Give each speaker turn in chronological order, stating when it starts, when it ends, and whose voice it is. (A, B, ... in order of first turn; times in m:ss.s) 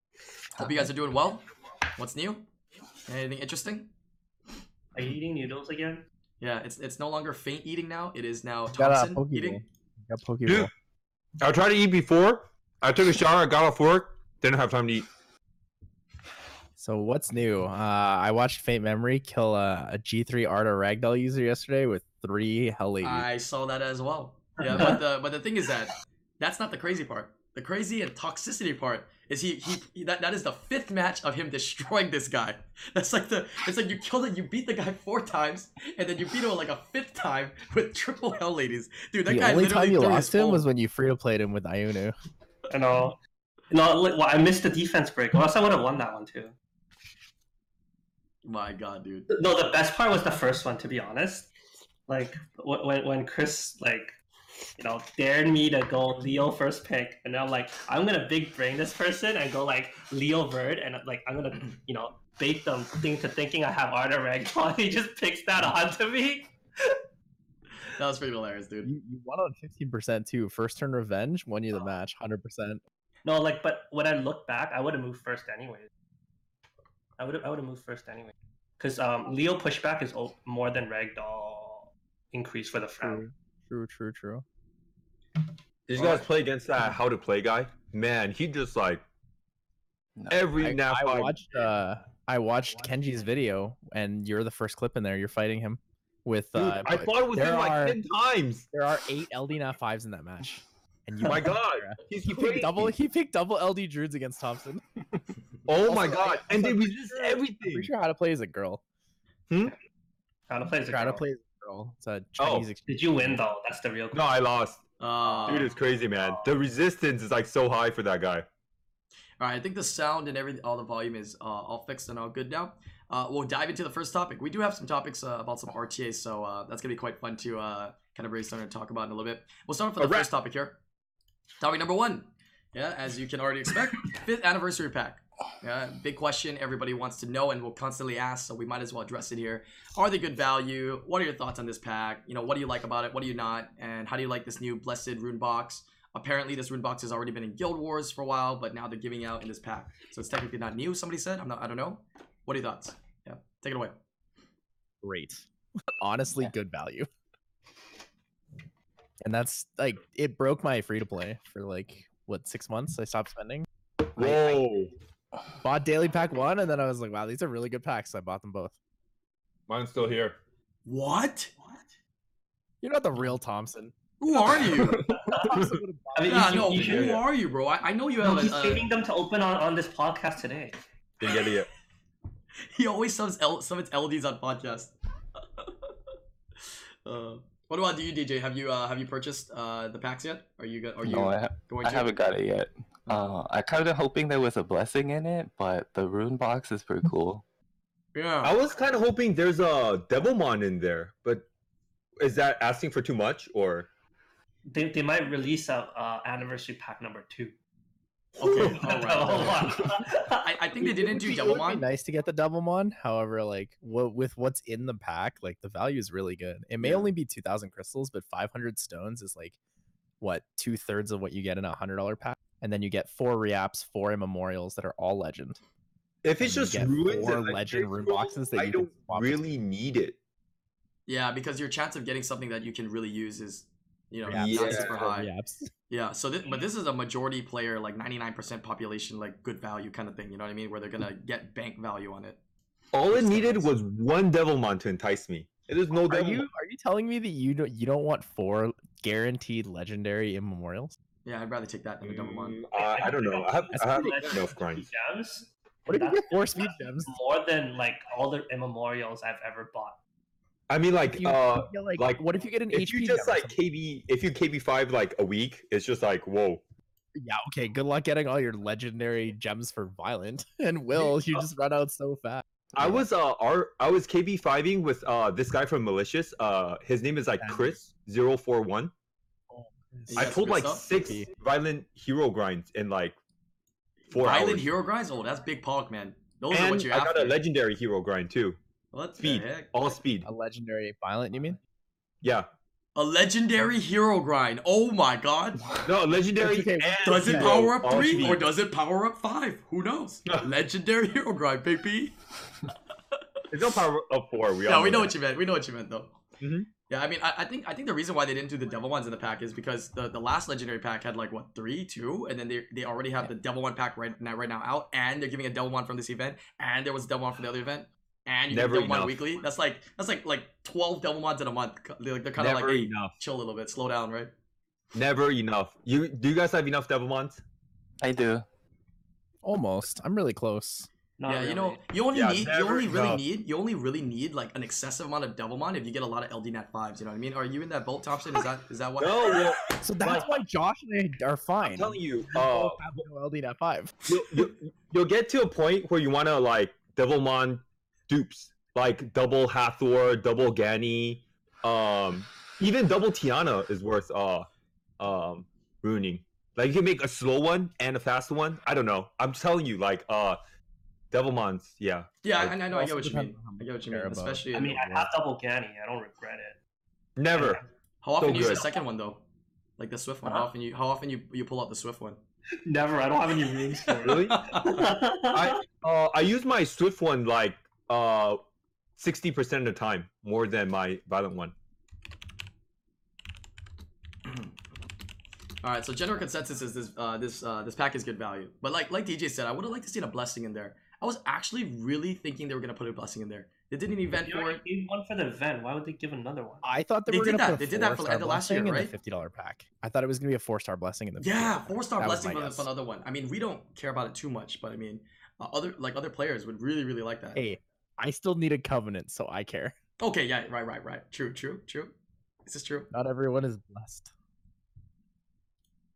0:00.6-0:02.4 A
0:03.0-0:03.9 A
0:04.9-0:06.0 B
0:06.4-0:09.6 A
0:08.7-0:10.7 C
0:11.4-0:15.1 D
0:16.8-0:23.3 C
0:23.0-0:40.6 A
0:24.6-0:25.0 B
0:39.3-0:42.1 C
0:42.7-0:43.2 B
0:43.7-0:46.5 B
0:48.4-0:49.3 A
0:49.3-0:51.5 B
0:52.1-0:54.2 B
0:54.8-1:07.0 B
1:08.0-1:08.9 A
1:08.8-1:12.8 C
1:13.2-1:15.9 B
1:17.2-1:23.2 B
1:23.0-1:24.4 C
1:25.9-1:29.0 D
1:26.0-1:26.2 A
1:30.3-1:31.4 D
1:30.6-1:38.0 C
1:36.6-1:38.6 D
1:38.7-1:44.8 C
1:41.2-1:42.9 D
1:45.6-1:47.9 D
1:45.8-1:48.8 C
1:50.5-1:51.2 B
1:50.9-1:53.4 C
1:52.4-1:52.7 D
1:52.8-1:54.2 B
1:54.1-1:54.8 D
1:55.0-1:55.7 A
1:55.4-1:58.4 D
1:55.5-1:56.5 B
1:59.4-2:10.8 A
2:10.0-2:10.3 D
2:11.6-2:34.0 A
2:35.0-2:35.4 C
2:36.0-2:37.1 C
2:39.2-2:44.6 C
2:44.2-2:44.9 D
2:45.6-2:48.7 C
2:49.7-2:50.4 D
2:50.8-2:51.5 A
2:52.8-2:53.9 C
2:54.2-2:55.2 A
2:55.1-2:57.0 C
2:56.1-2:57.2 B
2:56.2-2:58.9 A
2:56.5-2:57.2 D
2:58.2-3:00.8 B
3:01.2-3:01.7 D
3:02.7-3:04.9 A
3:07.0-3:12.1 A
3:11.0-3:17.4 E
3:13.1-3:13.4 A
3:18.1-3:18.6 A
3:18.4-3:21.4 D
3:22.2-3:23.9 D
3:24.6-3:27.5 B
3:28.4-3:31.8 A
3:28.4-3:30.4 B
3:31.0-3:31.4 D
3:31.1-3:39.6 C
3:36.8-3:37.0 A
3:40.2-3:45.6 C
3:46.2-3:50.2 D
3:46.4-3:49.4 C
3:51.1-3:55.3 A
3:54.2-3:55.7 C
3:54.3-3:55.1 D
3:55.9-4:02.4 A
4:02.9-4:06.5 D
4:03.1-4:03.7 A
4:05.9-4:11.0 C
4:11.2-4:12.6 A
4:12.0-4:14.8 D
4:12.8-4:20.0 B
4:13.7-4:14.4 C
4:15.9-4:17.1 C
4:20.7-4:26.6 D
4:21.1-4:23.6 C
4:27.1-4:33.0 C
4:31.0-4:31.4 D
4:32.8-4:38.9 D
4:37.4-4:37.8 C
4:39.5-4:41.3 C
4:40.1-4:40.8 A
4:40.2-4:43.2 D
4:44.1-4:47.4 A
4:44.1-4:44.7 D
4:46.5-4:48.6 D
4:48.9-4:49.9 A
4:49.2-4:50.3 D
4:50.2-4:51.6 C
4:52.2-4:52.5 D
4:53.0-4:55.7 A
4:55.8-4:58.4 D
4:56.4-4:58.4 C
4:57.0-5:02.2 A
5:03.5-5:05.1 D
5:04.6-5:06.2 A
5:06.4-5:06.7 D
5:06.9-5:24.3 A
5:18.5-5:19.4 D
5:22.4-5:23.2 D
5:24.9-5:27.4 D
5:28.0-5:28.4 E
5:29.4-5:30.9 C
5:31.2-5:31.8 B
5:31.3-5:39.4 A
5:32.1-5:33.2 D
5:39.0-5:40.3 D
5:39.7-5:44.0 C
5:41.6-5:43.0 D
5:44.0-5:54.5 D
5:55.0-6:00.4 D
6:01.1-6:02.5 D
6:02.2-6:04.8 A
6:02.7-6:05.1 C
6:04.5-6:06.6 B
6:07.2-6:07.6 D
6:07.3-6:07.6 B
6:08.0-6:09.2 A
6:08.2-6:08.6 D
6:09.8-6:12.2 A
6:12.6-6:15.6 B
6:14.0-6:14.7 A
6:14.0-6:18.4 D
6:19.0-6:21.5 D
6:25.6-6:34.6 A
6:34.2-6:36.7 B
6:36.6-6:42.7 C
6:37.1-6:38.9 A
6:41.2-6:47.4 A
6:47.3-6:49.7 C
6:50.0-6:51.9 A
6:52.5-6:52.9 A
6:52.9-6:54.1 C